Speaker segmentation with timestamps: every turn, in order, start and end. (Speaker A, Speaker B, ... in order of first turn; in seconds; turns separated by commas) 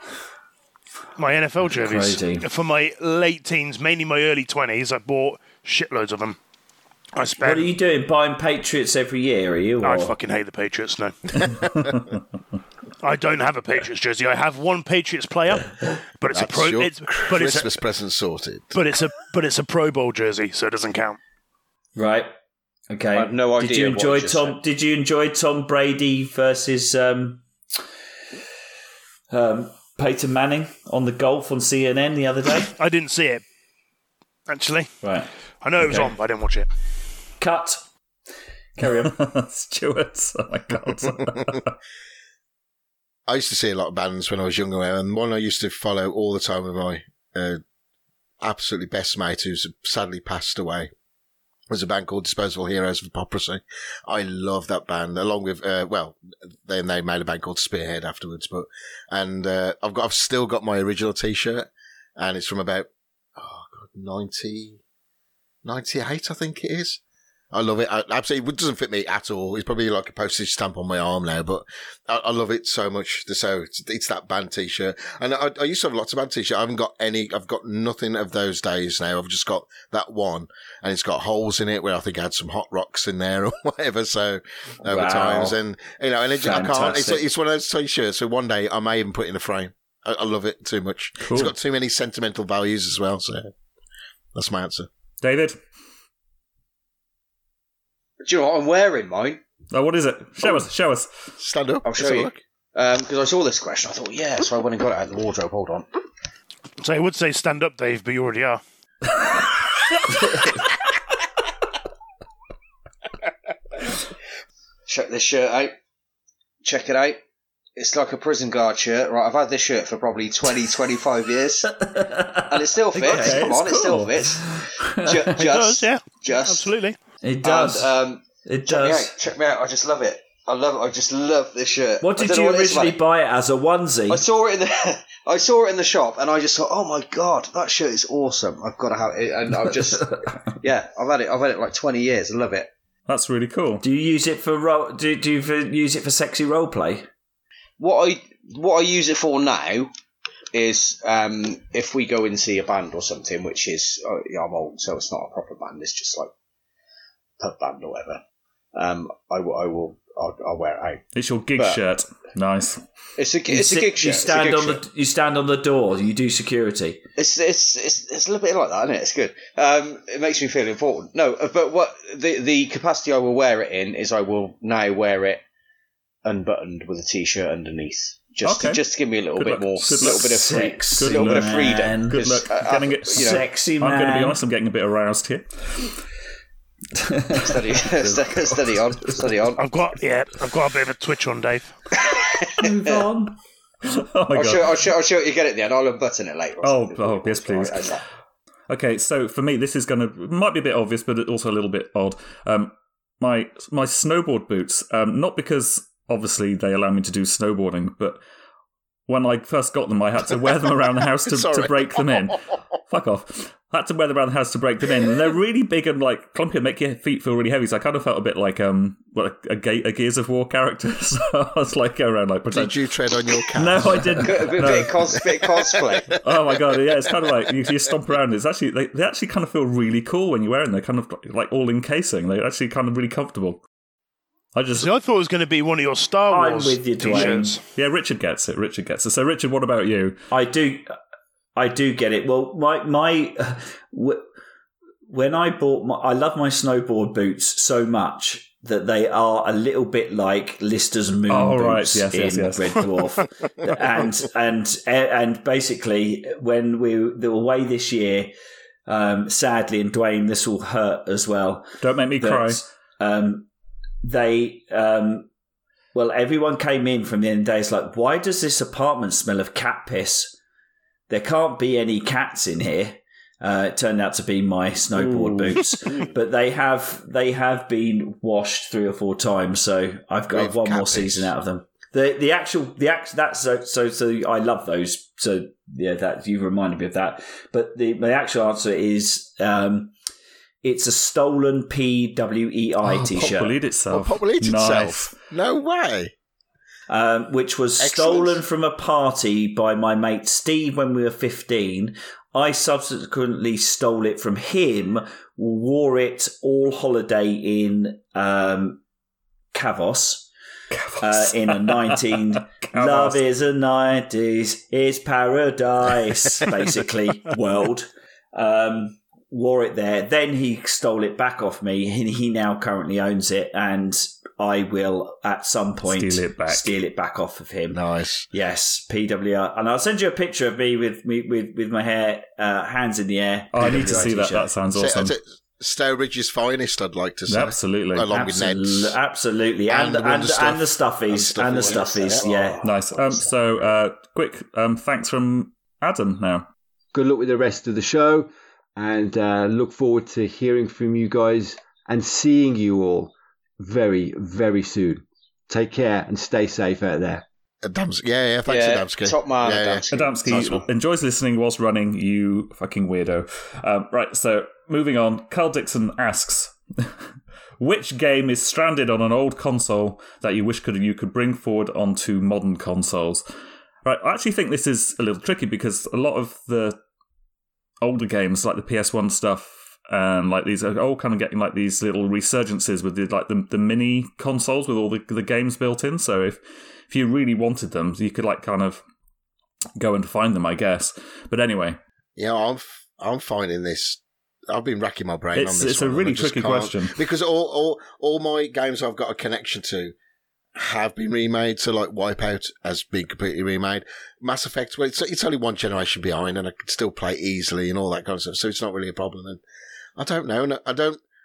Speaker A: 1.1-6.4, Speaker B: 1.7-2.5, Speaker A: 7.2-7.7, Speaker B: 7.4-10.1, Speaker A: 9.8-11.2, Speaker C: 11.5-12.2, Speaker A: 13.0-17.7, Speaker D: 16.3-18.8, Speaker A: 18.7-21.2, Speaker B: 21.9-22.3, Speaker B: 22.9-27.4, Speaker E: 23.1-24.6, Speaker B: 29.3-32.8, Speaker A: 32.7-33.4, Speaker A: 34.5-34.9, Speaker B: 35.0-35.3, Speaker A: 35.6-36.7, Speaker B: 35.8-36.1, Speaker B: 37.4-37.8, Speaker B: 38.8-39.1, Speaker C: 39.0-41.7, Speaker D: 43.3-47.6, Speaker D: 48.4-50.9, Speaker D: 51.7-64.8, Speaker D: 65.6-67.0, Speaker D: 67.5-93.5, Speaker B: 84.8-85.6, Speaker B: 86.4-87.2, Speaker C: 91.3-91.5, Speaker D: 94.3-94.9, Speaker C: 95.2-95.6, Speaker E: 98.2-99.4, Speaker C: 99.7-101.1, Speaker D: 101.4-102.4, Speaker E: 101.8-105.9, Speaker A: 106.8-108.6, Speaker E: 114.9-115.7, Speaker E: 116.6-117.2, Speaker E: 117.8-121.9, Speaker B: 121.7-125.3, Speaker E: 122.5-126.7, Speaker C: 123.0-124.1, Speaker A: 125.3-127.0, Speaker B: 127.2-129.1, Speaker E: 127.4-133.0, Speaker B: 132.0-134.2, Speaker E: 134.1-142.7, Speaker C: 143.1-143.8, Speaker B: 143.8-147.1, Speaker E: 147.8-149.9, Speaker E: 150.5-156.3, Speaker E: 157.4-158.2, Speaker E: 158.7-161.0, Speaker C: 161.1-162.8, Speaker E: 163.2-164.8, Speaker B: 163.5-167.0, Speaker E: 167.2-175.4, Speaker E: 176.2-183.4, Speaker C: 178.4-178.8, Speaker C: 179.4-185.9, Speaker B: 179.9-182.2, Speaker B: 183.1-184.4, Speaker B: 186.9-187.8, Speaker E: 187.3-189.7, Speaker C: 188.1-188.5, Speaker A: 189.6-191.7, Speaker E: 192.0-193.0, Speaker B: 192.6-193.4, Speaker C: 193.8-194.9, Speaker E: 194.3-198.0, Speaker C: 196.6-197.9, Speaker C: 198.7-208.2, Speaker C: 209.1-222.8, Speaker D: 211.3-212.4, Speaker D: 222.5-224.6, Speaker C: 223.5-225.0, Speaker E: 224.2-226.2, Speaker C: 226.2-233.6, Speaker C: 234.6-234.9, Speaker A: 234.7-237.6, Speaker B: 236.3-237.6, Speaker C: 237.1-240.2, Speaker B: 240.3-240.9, Speaker B: 241.6-244.2, Speaker B: 245.1-258.3, Speaker C: 251.3-252.9, Speaker B: 258.9-263.5, Speaker C: 261.8-262.6, Speaker B: 264.0-265.3, Speaker B: 265.9-270.4, Speaker B: 271.1-289.9, Speaker C: 275.0-275.7, Speaker D: 280.3-281.3, Speaker B: 290.6-293.6, Speaker C: 292.8-295.1, Speaker D: 293.9-296.1, Speaker B: 296.9-308.8, Speaker D: 297.8-298.4, Speaker B: 309.5-310.3, Speaker C: 310.7-313.2, Speaker B: 311.0-327.8, Speaker C: 325.9-326.7, Speaker D: 327.7-328.3, Speaker B: 328.3-334.5, Speaker C: 333.5-335.1, Speaker D: 334.7-339.0, Speaker C: 337.3-338.1, Speaker B: 338.1-342.6, Speaker D: 339.7-342.3, Speaker E: 341.5-343.3, Speaker C: 342.6-346.4, Speaker F: 346.9-357.2, Speaker D: 357.6-360.6, Speaker E: 358.5-360.7, Speaker C: 359.9-366.9, Speaker C: 367.6-373.2, Speaker C: 373.8-376.8, Speaker C: 377.8-388.8, Speaker C: 389.8-391.8, Speaker D: 392.1-399.9, Speaker C: 395.3-396.9, Speaker D: 400.6-409.4, Speaker D: 410.0-411.0